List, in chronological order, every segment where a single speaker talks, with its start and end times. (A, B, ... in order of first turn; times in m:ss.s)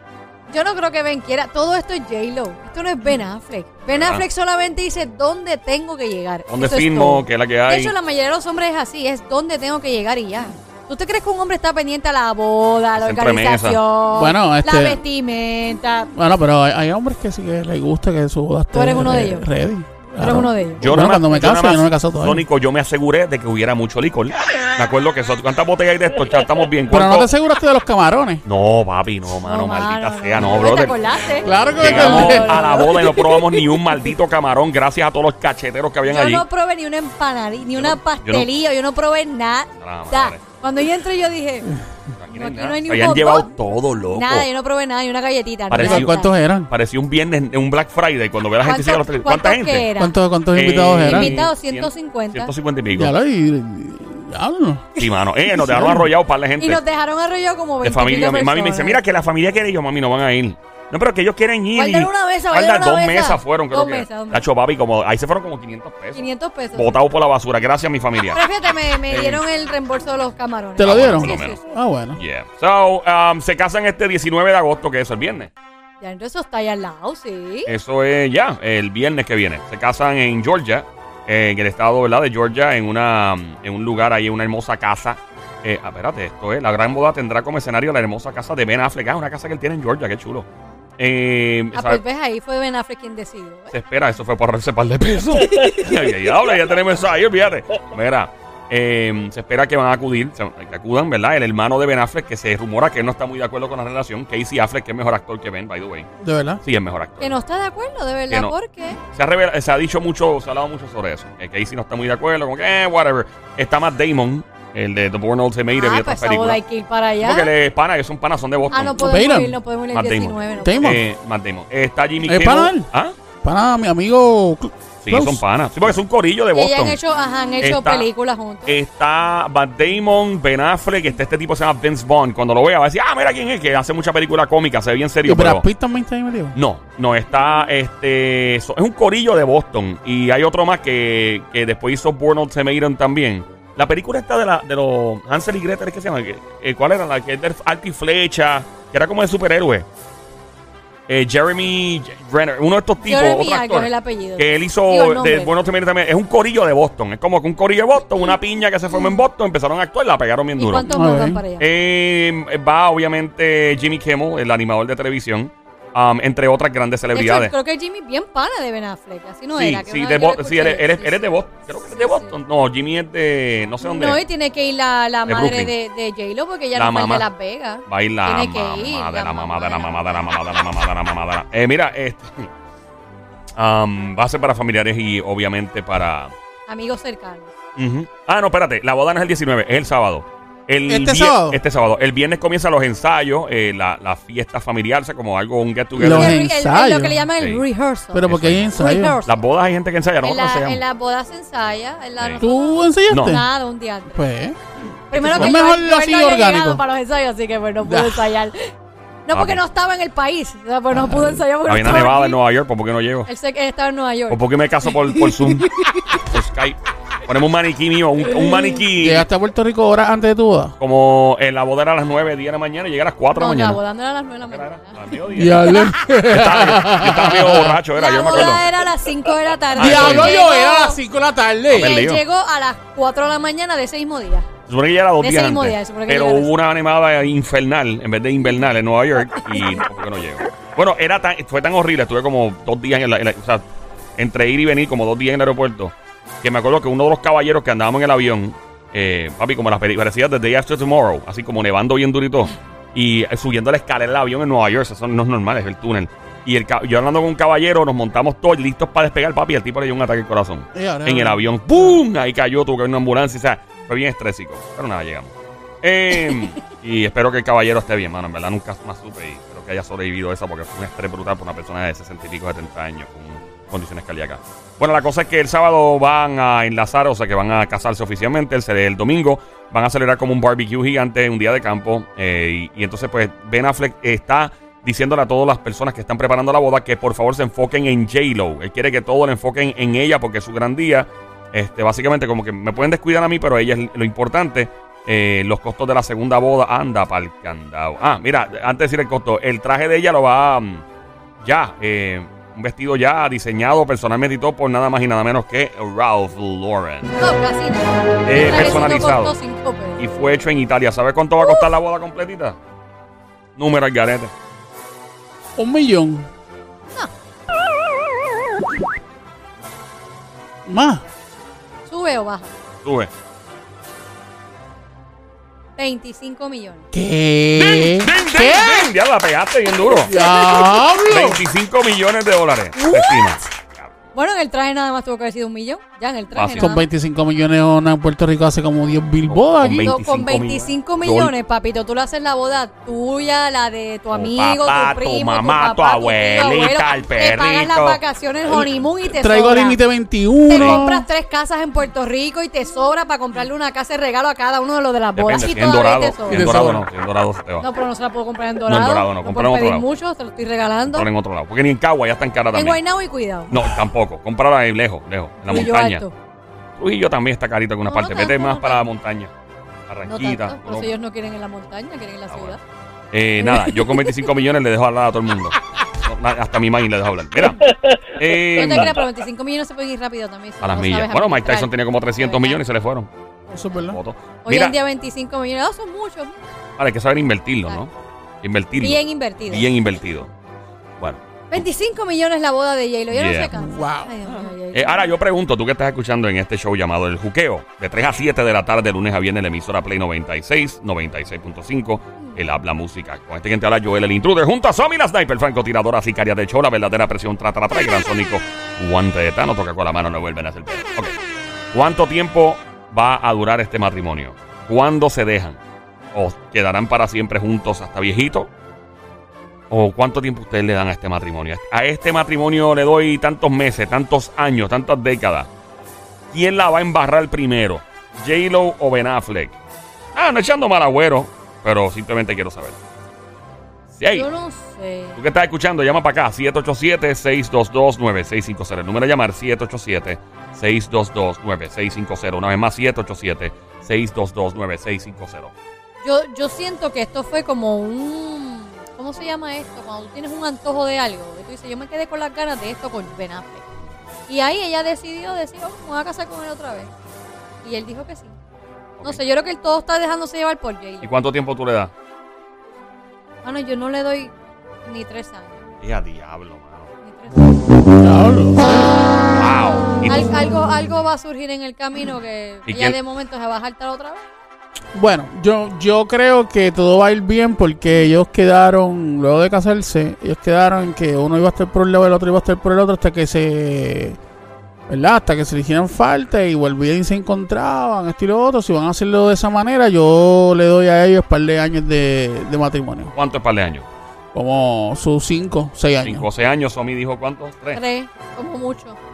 0:00.5-0:16.1 A
0:03.9-0:04.2 B
0:06.5-0:07.9 B
0:13.0-0:13.8 B
0:14.1-0:15.0 C
0:16.1-0:22.4 C
0:18.7-0:19.5 A
0:20.2-0:20.9 A
0:20.8-0:27.3 B
0:26.9-0:28.4 C
0:28.4-0:31.0 B
0:29.4-0:33.6 A
0:31.4-0:33.0 C
0:31.8-0:36.4 B
0:36.0-0:41.7 A
0:37.8-0:38.5 B
0:39.8-0:40.4 B
0:42.1-0:44.5 B
0:42.3-0:43.5 A
0:44.1-0:46.3 A
0:45.7-0:49.9 B
0:45.8-0:46.7 C
0:48.6-0:50.2 A
0:50.0-0:51.4 C
0:50.5-0:53.1 B
0:51.0-0:52.5 A
0:52.9-0:55.0 C
0:55.0-0:56.8 B
0:55.5-0:56.1 C
0:56.6-0:59.0 A
0:57.8-1:08.4 B
1:01.8-1:04.5 A
1:06.2-1:07.0 A
1:08.3-1:11.6 A
1:09.1-1:09.4 B
1:10.8-1:12.2 C
1:10.8-1:11.6 B
1:12.2-1:15.5 B
1:16.0-1:17.7 A
1:17.7-1:30.5 B
1:31.0-1:32.0 B
1:31.7-1:33.7 A
1:33.7-1:46.1 B
1:46.2-1:46.6 C
1:46.6-1:47.4 B
1:47.2-1:49.0 A
1:48.3-1:48.6 B
1:49.1-1:56.6 B
1:55.8-1:57.5 A
1:57.2-1:59.0 B
1:58.7-2:01.0 A
1:59.0-1:59.6 C
1:59.9-2:03.2 B
2:00.6-2:01.0 C
2:02.2-2:02.9 C
2:03.4-2:05.4 C
2:05.0-2:07.0 B
2:06.5-2:08.8 A
2:07.6-2:08.1 B
2:08.7-2:15.7 B
2:15.2-2:16.6 C
2:16.6-2:29.9 B
2:31.1-2:40.9 B
2:33.0-2:35.5 A
2:40.6-2:41.7 A
2:40.9-2:41.4 C
2:41.6-2:47.5 B
2:47.1-2:52.4 A
2:49.6-2:54.2 B
2:53.8-3:00.3 A
2:55.3-2:55.7 B
2:56.8-2:57.3 B
2:57.9-3:02.5 B
3:03.6-3:06.3 B
3:06.7-3:07.5 A
3:07.8-3:16.4 B
3:10.9-3:11.6 C
3:16.0-3:17.3 C
3:16.0-3:19.4 A
3:17.4-3:17.6 B
3:18.1-3:19.2 C
3:18.2-3:20.8 B
3:20.2-3:24.3 A
3:22.2-3:22.4 B
3:22.4-3:23.5 C
3:23.1-3:23.4 B
3:24.1-3:24.6 C
3:25.1-3:28.7 A
3:25.1-3:26.8 C
3:25.2-3:25.6 B
3:27.8-3:28.3 C
3:29.3-3:32.4 A
3:29.3-3:29.6 B
3:30.9-3:32.1 C
3:31.6-3:33.3 B
3:33.3-3:36.2 A
3:34.3-3:39.3 B
3:38.3-3:38.8 A
3:38.9-3:40.8 C
3:40.8-3:43.8 B
3:43.4-3:45.9 A
3:44.4-3:48.7 B
3:45.3-3:47.8 C
3:47.9-3:51.0 A
3:49.8-3:50.4 B
3:49.8-3:52.0 C
3:51.7-3:52.2 B
3:51.8-3:54.5 A
3:54.7-4:03.6 B
3:55.2-3:56.5 A
3:59.5-3:59.8 A
4:04.2-5:00.8 B
4:20.7-4:22.0 C
5:01.4-5:07.2 B
5:07.2-5:10.0 A
5:08.2-5:09.4 B
5:10.0-5:12.6 B
5:13.6-5:14.3 B
5:15.6-5:16.3 C
5:20.7-5:21.0 C
5:21.9-5:22.5 A
5:22.8-5:23.1 B
5:25.8-5:26.9 A
5:26.9-5:28.9 C
5:27.6-5:30.2 B
5:30.1-5:31.4 C
5:30.1-5:31.0 A
5:31.0-5:33.9 B
5:32.8-5:33.4 A
5:34.1-5:36.9 A
5:36.3-5:36.8 B
5:36.6-5:39.9 C
5:39.3-5:41.3 B
5:39.6-5:49.8 A
5:44.1-5:48.7 B
5:49.1-5:51.1 C
5:50.5-5:56.8 A
5:50.5-5:50.8 B
5:55.2-5:57.6 B
5:56.3-5:56.8 C
5:57.6-6:01.1 A
5:58.7-5:59.8 B
6:00.9-6:02.8 B
6:02.5-6:03.7 A
6:03.5-6:06.0 B
6:05.4-6:06.1 A
6:06.8-6:09.3 B
6:07.9-6:08.8 A
6:09.9-6:10.9 B
6:10.1-6:12.6 A
6:12.3-6:12.6 B
6:13.1-6:19.0 B
6:13.4-6:14.3 A
6:18.5-6:22.6 A
6:20.6-6:23.1 B
6:23.5-6:24.0 C
6:23.9-6:24.8 B
6:24.4-6:26.4 A
6:26.8-6:27.9 B
6:28.4-6:30.3 B
6:28.8-6:29.7 A
6:31.0-6:31.6 B
6:31.5-6:35.1 A
6:33.1-6:33.5 B
6:33.5-6:34.2 C
6:34.3-6:51.2 B
6:51.7-6:55.6 B
6:56.1-6:58.5 B
6:59.7-7:05.5 B
7:06.3-7:09.6 B
7:10.2-7:12.8 B
7:13.9-7:14.3 B
7:14.1-7:15.2 A
7:15.2-7:25.5 B
7:26.0-7:33.6 A
7:34.3-7:36.9 A
7:37.6-7:38.4 A
7:39.0-7:41.1 A
7:41.0-7:41.9 B
7:43.4-7:44.3 A
7:44.9-7:45.6 A
7:45.8-7:46.9 B
7:47.0-7:47.6 A
7:48.0-7:49.0 C
7:49.4-7:50.4 B
7:50.1-7:54.3 A
7:52.7-7:53.0 B
7:54.9-8:04.2 C
8:04.9-8:13.1 C
8:13.1-8:13.9 B
8:14.3-8:16.3 C
8:16.0-8:17.8 B
8:17.7-8:19.0 A